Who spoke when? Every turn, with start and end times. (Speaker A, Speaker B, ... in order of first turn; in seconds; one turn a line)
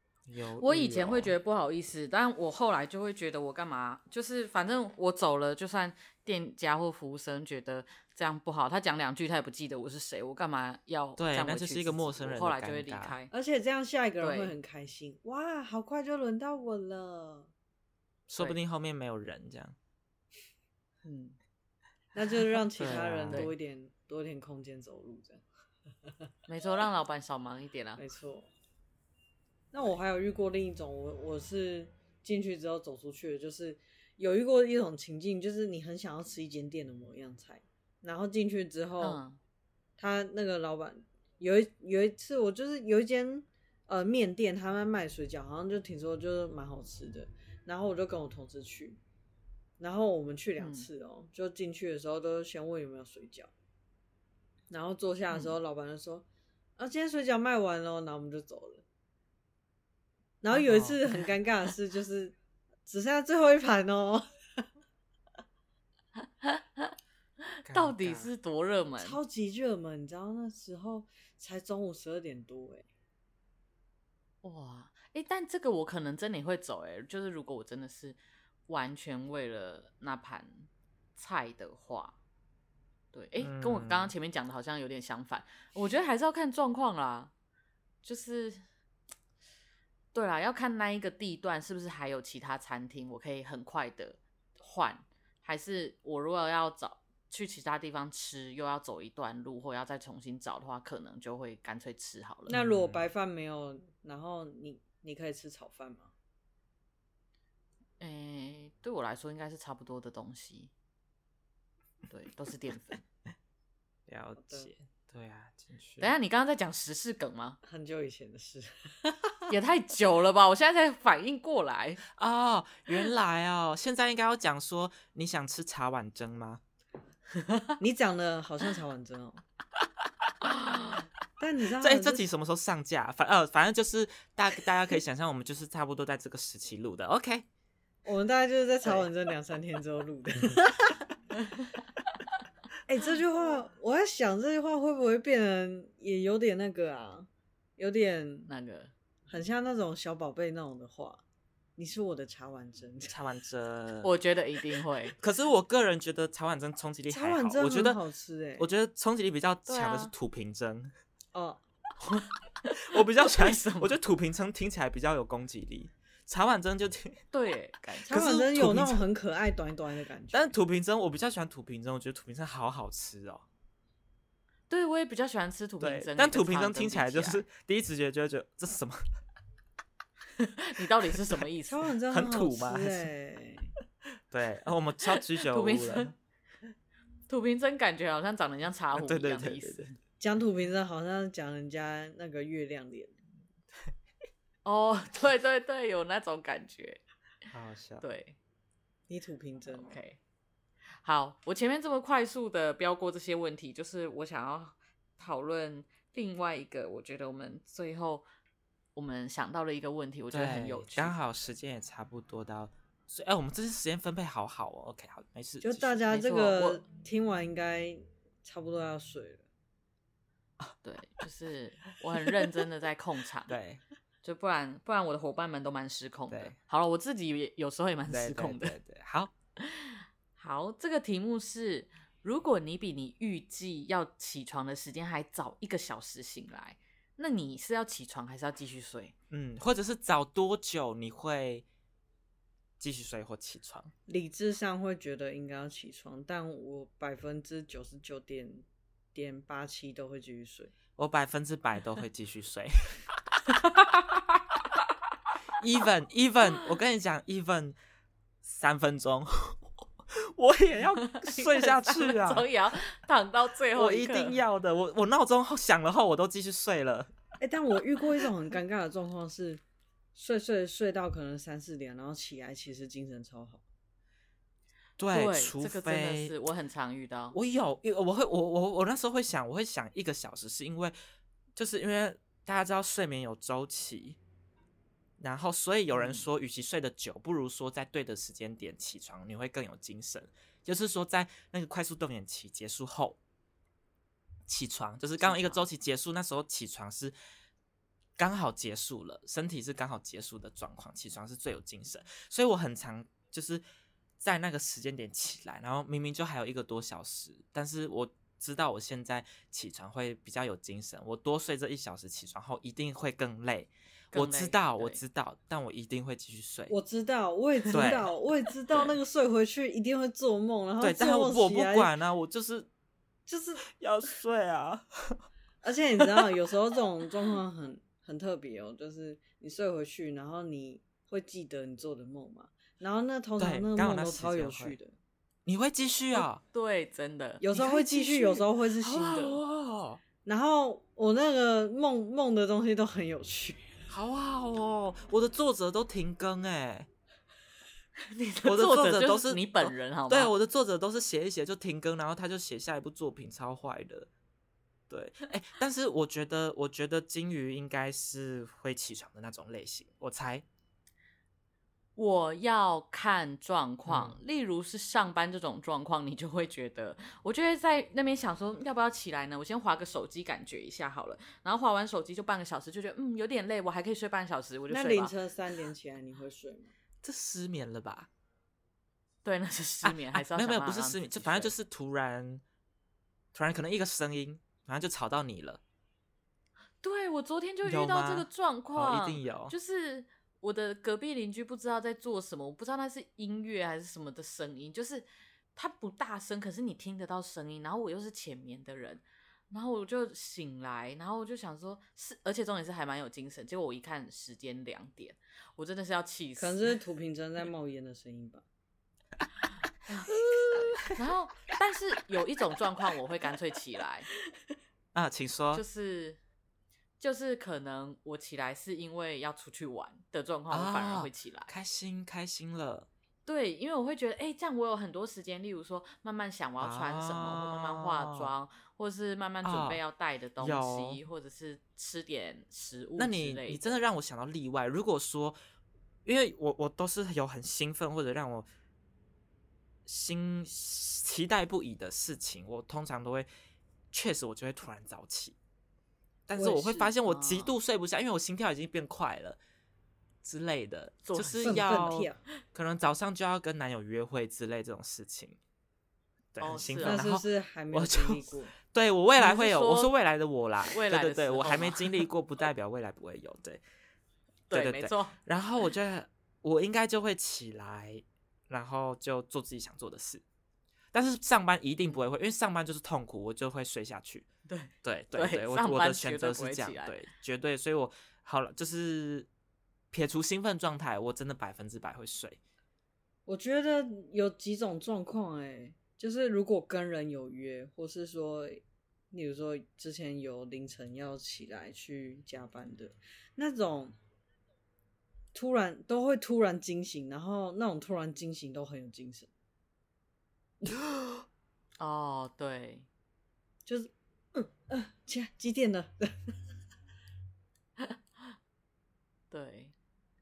Speaker A: 0.3-1.3
Speaker B: 0.6-13.3
Speaker A: 11.2-13.2
Speaker C: 13.3-17.5
Speaker B: 14.2-14.5
Speaker A: 18.3-19.8
Speaker B: 21.0-21.4
Speaker C: 22.1-25.4
Speaker A: 22.8-23.5
Speaker B: 26.5-28.0
Speaker C: 28.0-28.5
Speaker C: 29.7-39.2
Speaker B: 39.0-39.4
Speaker C: 40.0-49.0
Speaker C: 49.8-53.5
Speaker B: 50.6-50.9
Speaker C: 54.7-56.3
Speaker C: 56.8-58.8
Speaker C: 60.4-64.7
Speaker A: 60.5-61.0
Speaker B: 66.4-67.0
Speaker B: 67.5-69.2
Speaker A: 67.7-68.3
Speaker C: 69.0-72.9
Speaker B: 74.4-82.2
Speaker B: 83.1-87.3
Speaker A: 83.4-84.1
Speaker B: 88.0-88.6
Speaker B: 90.1-102.5
Speaker C: 102.5-106.1
Speaker A: 102.5-103.0
Speaker B: 108.0-110.7
Speaker B: 112.1-113.0
Speaker A: 114.1-116.1
Speaker C: 114.4-114.7
Speaker B: 116.0-117.6
Speaker C: 117.6-119.5
Speaker B: 119.5-122.0
Speaker A: 122.1-126.6
Speaker B: 127.4-127.8
Speaker C: 127.8-129.4
Speaker C: 131.4-132.3
Speaker A: 131.8-137.4
Speaker C: 138.0-141.1
Speaker C: 142.9-148.5
Speaker B: 148.5-148.9
Speaker C: 149.3-151.2
Speaker C: 151.8-153.2
Speaker A: 153.1-154.2
Speaker B: 154.0-155.2
Speaker A: 155.2-158.0
Speaker C: 157.1-158.7
Speaker A: 158.6-160.9
Speaker B: 159.7-160.1
Speaker C: 161.3-161.6
Speaker B: 162.0-164.0
Speaker A: 162.7-167.2
Speaker B: 167.3-168.2
Speaker A: 167.9-169.0
Speaker C: 168.1-170.5
Speaker A: 170.3-173.4
Speaker B: 174.7-177.4
Speaker A: 175.8-179.0
Speaker B: 180.4-181.8
Speaker C: 181.7-183.7
Speaker A: 182.1-183.1
Speaker A: 184.3-186.1
Speaker B: 185.4-186.1
Speaker B: 187.3-190.0
Speaker A: 188.9-189.9
Speaker C: 190.2-193.2
Speaker B: 194.7-197.0
Speaker A: 197.5-198.0
Speaker B: 198.0-198.4
Speaker C: 199.1-200.0
Speaker B: 199.7-200.2
Speaker B: 201.0-208.3
Speaker B: 208.9-211.2
Speaker A: 210.3-216.0
Speaker C: 215.6-219.4
Speaker B: 216.1-216.8
Speaker B: 220.8-223.5
Speaker A: 223.5-223.8
Speaker B: 224.2-228.8
Speaker A: 226.3-226.6
Speaker A: 228.1-229.3
Speaker B: 229.6-239.1
Speaker A: 239.3-241.7
Speaker A: 242.8-243.9
Speaker C: 244.1-250.7
Speaker A: 251.0-253.0
Speaker B: 253.6-254.1
Speaker A: 255.6-257.8
Speaker A: 258.4-259.6
Speaker A: 260.2-262.5
Speaker B: 261.1-264.4
Speaker A: 263.8-267.1
Speaker C: 267.4-269.6
Speaker C: 270.1-273.6
Speaker A: 275.0-276.3
Speaker B: 275.1-277.4
Speaker A: 277.3-280.9
Speaker A: 281.6-284.2
Speaker A: 285.2-293.2
Speaker B: 285.9-286.3
Speaker A: 294.5-297.1
Speaker B: 295.2-295.7
Speaker A: 298.2-303.6
Speaker A: 304.2-316.7
Speaker B: 314.1-315.0
Speaker C: 316.7-321.9
Speaker A: 317.7-318.1
Speaker A: 320.8-322.7
Speaker C: 323.3-323.6
Speaker A: 323.7-325.2
Speaker C: 325.6-334.9
Speaker A: 333.4-334.8
Speaker A: 335.5-336.4
Speaker B: 336.1-338.3
Speaker C: 337.4-339.4
Speaker A: 337.7-338.2
Speaker A: 338.8-340.0
Speaker C: 340.2-343.8
Speaker A: 343.9-346.9
Speaker B: 348.0-350.3
Speaker A: 348.4-354.1
Speaker A: 354.9-360.4
Speaker B: 362.0-375.1
Speaker A: 363.9-364.2
Speaker C: 374.7-376.7
Speaker A: 377.0-378.1
Speaker B: 379.2-381.5
Speaker A: 379.8-382.4
Speaker A: 383.3-385.6
Speaker B: 386.8-406.7
Speaker A: 387.6-389.5
Speaker C: 406.4-408.4
Speaker B: 409.9-414.1
Speaker A: 414.9-415.6
Speaker B: 415.5-416.2
Speaker B: 417.0-421.5
Speaker A: 420.5-422.9
Speaker B: 423.3-433.8
Speaker A: 426.6-428.3
Speaker A: 429.4-429.8
Speaker A: 430.4-431.0
Speaker A: 433.0-435.4
Speaker A: 436.1-438.5
Speaker A: 439.9-443.3
Speaker A: 443.9-445.4
Speaker A: 446.3-449.4
Speaker C: 446.4-446.9
Speaker B: 447.0-447.6
Speaker A: 450.2-455.4
Speaker B: 451.1-451.9
Speaker C: 451.4-452.2
Speaker A: 456.3-463.6
Speaker B: 456.4-457.0
Speaker C: 456.8-458.5
Speaker B: 459.2-459.9
Speaker B: 460.7-462.0
Speaker B: 464.5-465.2
Speaker A: 464.5-470.2
Speaker A: 470.9-474.3
Speaker B: 474.5-477.0
Speaker A: 474.8-479.3
Speaker A: 479.9-482.4
Speaker C: 483.3-493.9
Speaker C: 495.3-499.3
Speaker B: 501.8-502.9
Speaker C: 503.7-506.4
Speaker B: 509.3-509.7